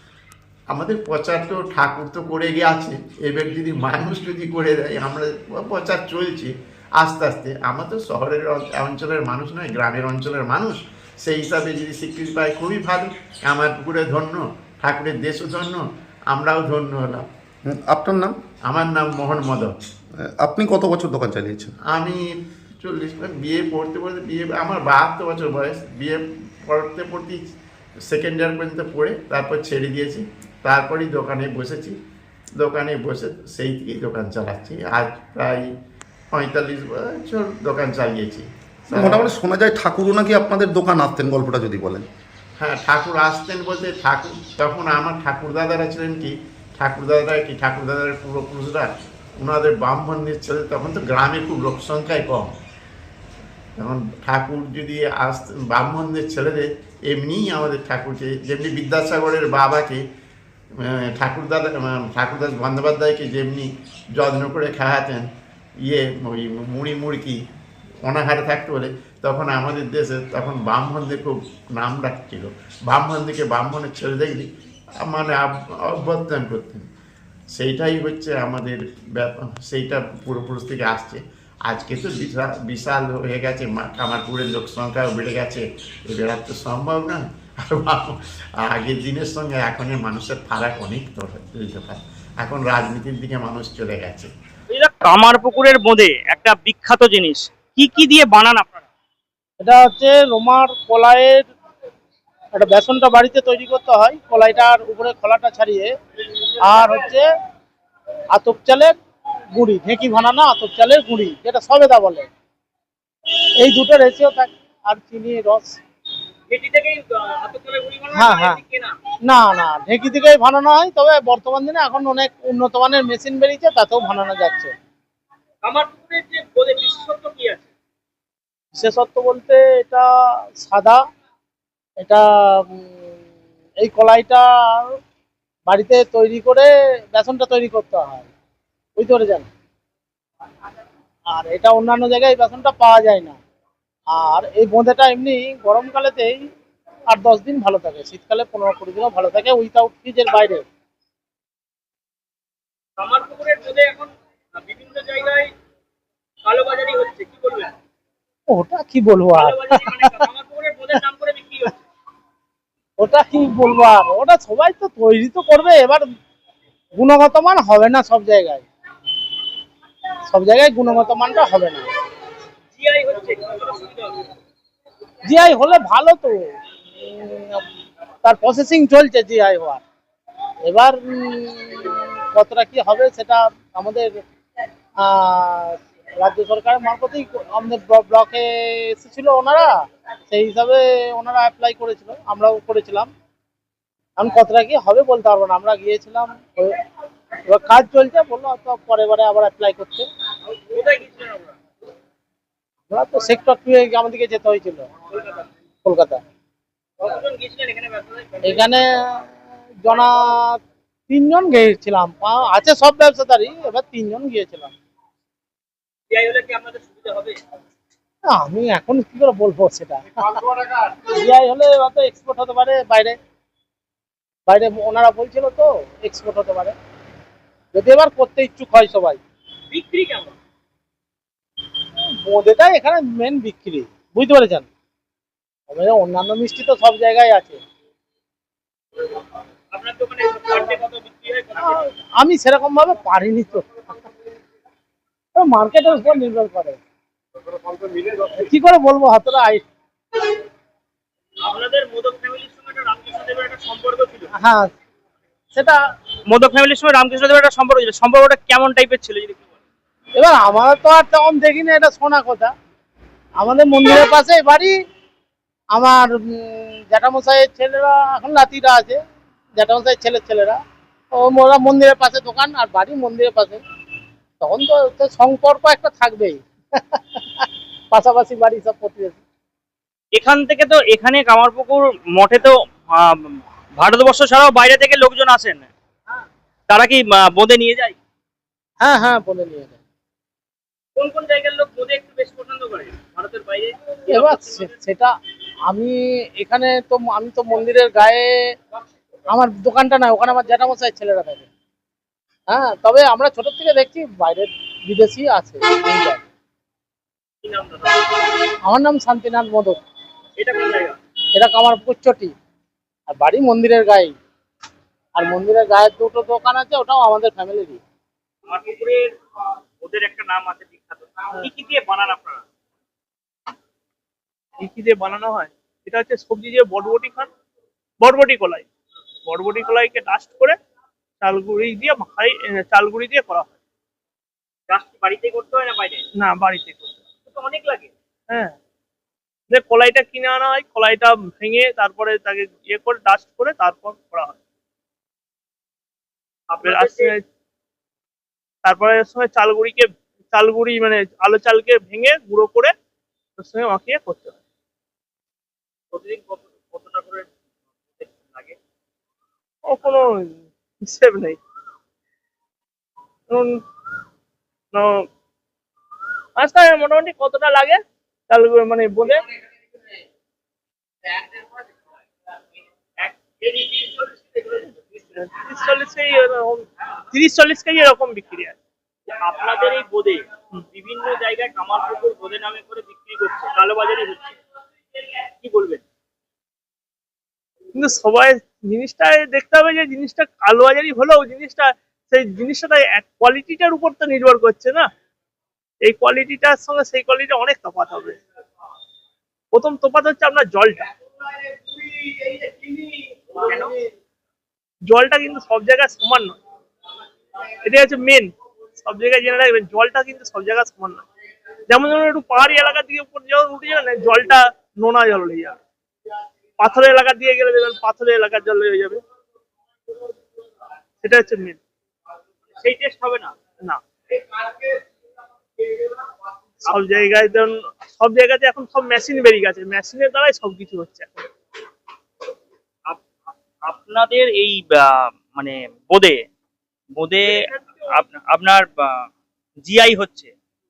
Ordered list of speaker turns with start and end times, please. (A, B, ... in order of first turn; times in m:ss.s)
0:00.7-0:17.2 A
0:17.7-0:18.3 B
0:18.6-0:19.7 A
0:20.4-0:21.7 B
0:21.8-0:22.2 A
0:22.8-0:27.4 A
0:28.1-0:31.9 A
0:32.6-0:35.6 A
0:36.3-0:39.4 A
0:38.9-0:42.0 B
0:42.6-0:52.5 A
0:53.8-1:00.0 A
1:00.8-1:05.3 A
1:05.8-1:07.4 A
1:08.0-1:14.5 A
1:15.0-1:16.8 A
1:17.5-1:34.3 A
1:34.7-1:38.9 C
1:39.6-1:41.5 D
1:42.5-1:45.9 D
1:46.6-1:47.2 D
1:48.3-1:48.9 D
1:49.5-1:52.3 D
1:53.6-1:55.8 D
1:56.5-1:59.0 C
1:58.1-1:58.6 D
1:59.2-2:04.7 D
2:05.6-2:07.7 C
2:08.7-2:10.0 D
2:10.6-2:11.0 D
2:12.0-2:13.0 D
2:13.8-2:15.0 D
2:15.7-2:18.3 D
2:19.0-2:19.5 D
2:21.3-2:23.4 D
2:24.1-2:26.5 D
2:27.1-2:30.6 D
2:33.0-2:35.5 C
2:36.4-2:37.7 C
2:38.5-2:40.1 D
2:39.4-2:41.8 C
2:43.0-2:46.1 D
2:46.9-2:48.6 D
2:50.3-2:51.9 D
2:52.8-2:54.3 C
2:55.2-2:56.4 D
2:57.0-2:57.6 D
2:58.2-2:59.8 D
3:00.6-3:04.2 D
3:05.0-3:09.7 D
3:10.3-3:13.1 D
3:14.2-3:16.8 D
3:17.4-3:20.0 D
3:20.7-3:21.6 C
3:22.9-3:24.8 D
3:25.1-3:25.5 C
3:25.8-3:26.2 D
3:27.0-3:28.7 C
3:28.4-3:29.2 D
3:29.8-3:30.6 D
3:31.1-3:34.7 D
3:36.1-3:37.4 C
3:38.2-3:40.4 D
3:41.1-3:43.2 D
3:44.5-3:46.7 D
3:47.7-3:49.2 D
3:49.7-3:50.3 C
3:52.2-3:54.7 D
3:55.7-3:57.6 D
3:59.7-4:01.8 C
4:01.6-4:03.8 D
4:05.3-4:06.8 D
4:08.1-4:09.6 D
4:11.4-4:14.3 C
4:14.4-4:14.7 D
4:15.5-4:15.8 D
4:16.3-4:19.4 C
4:20.1-4:22.5 D
4:23.4-4:24.7 D
4:25.7-4:29.0 D
4:29.5-4:30.6 D
4:31.1-4:33.6 D
4:34.4-4:39.2 D
4:40.1-4:45.7 C
4:46.7-4:48.0 C
4:48.8-4:49.8 D
4:51.0-4:54.7 C
4:54.1-4:55.1 D
4:55.7-4:58.3 D
4:59.3-5:01.4 D
5:02.5-5:06.2 D
5:07.4-5:08.0 C
5:08.6-5:09.8 D
5:10.4-5:11.0 C
5:11.3-5:12.3 D
5:13.1-5:14.1 D
5:15.1-5:17.8 D
5:18.5-5:19.1 C
5:19.8-5:22.4 C
5:24.6-5:27.3 E
5:28.0-5:28.6 E
5:29.3-5:30.5 E
5:31.2-5:33.5 E
5:34.7-5:36.0 C
5:36.2-5:37.0 E
5:37.2-5:37.9 C
5:39.5-5:44.4 E
5:46.5-5:47.1 C
5:46.7-5:47.1 E
5:48.6-5:52.7 E
5:53.4-5:54.3 E
5:55.9-5:57.3 C
5:57.9-5:58.6 C
5:59.7-6:00.3 E
6:00.8-6:01.4 E
6:04.7-6:05.0 E
6:06.4-6:07.8 E
6:08.3-6:09.1 E
6:13.0-6:14.8 C
6:15.4-6:18.6 E
6:19.1-6:24.4 C
6:25.4-6:25.8 C
6:27.8-6:34.8 E
6:35.8-6:38.2 E
6:39.5-6:40.8 E
6:43.3-6:43.7 C
6:44.9-6:46.3 E
6:47.6-6:48.3 E
6:48.8-6:51.0 E
6:51.7-6:55.6 E
6:56.6-6:59.0 E
7:01.0-7:01.6 E
7:02.6-7:03.3 C
7:06.7-7:07.0 C
7:06.7-7:11.2 E
7:13.7-7:14.6 C
7:15.3-7:16.2 C
7:17.0-7:17.3 C
7:18.0-7:18.6 C
7:19.6-7:20.3 C